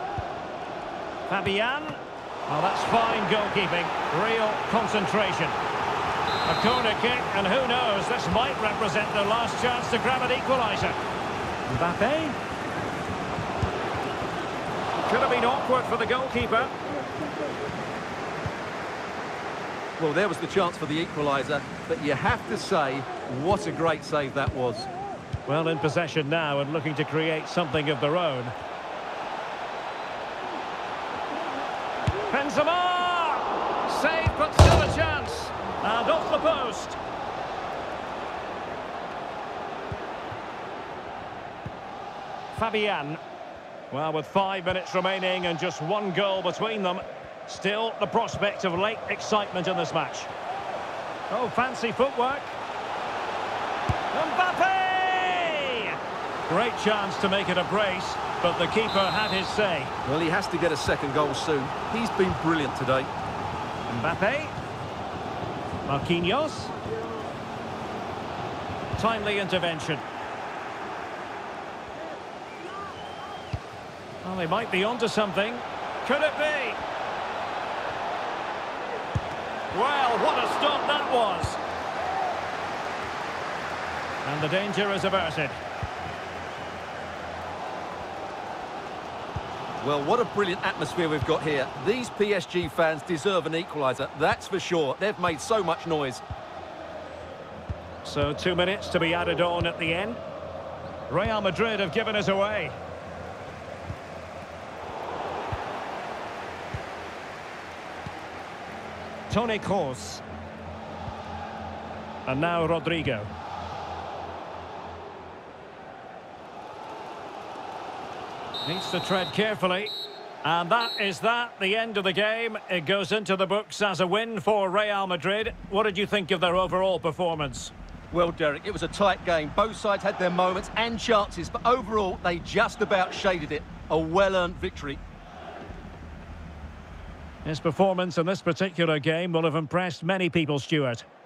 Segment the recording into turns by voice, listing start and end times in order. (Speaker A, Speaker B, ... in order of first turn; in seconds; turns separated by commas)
Speaker A: 1.3-5.5, Speaker A: 6.5-11.0, Speaker A: 11.7-12.4, Speaker A: 15.1-16.7, Speaker B: 20.0-24.9, Speaker A: 25.5-28.5, Speaker A: 32.3-37.0, Speaker A: 42.5-43.2, Speaker A: 43.9-50.3, Speaker A: 51.3-52.5, Speaker A: 54.1-56.0, Speaker A: 56.5-59.9, Speaker B: 60.0-63.1, Speaker A: 63.9-64.5, Speaker A: 65.9-66.8, Speaker A: 69.0-70.0, Speaker A: 74.2-76.8, Speaker A: 79.7-81.6, Speaker A: 84.2-85.6, Speaker B: 89.8-96.2, Speaker A: 98.0-100.2, Speaker A: 101.1-102.8, Speaker A: 109.3-110.2, Speaker A: 112.2-113.3, Speaker A: 118.7-119.9, Speaker A: 120.4-127.7, Speaker B: 128.1-135.0, Speaker A: 137.4-141.1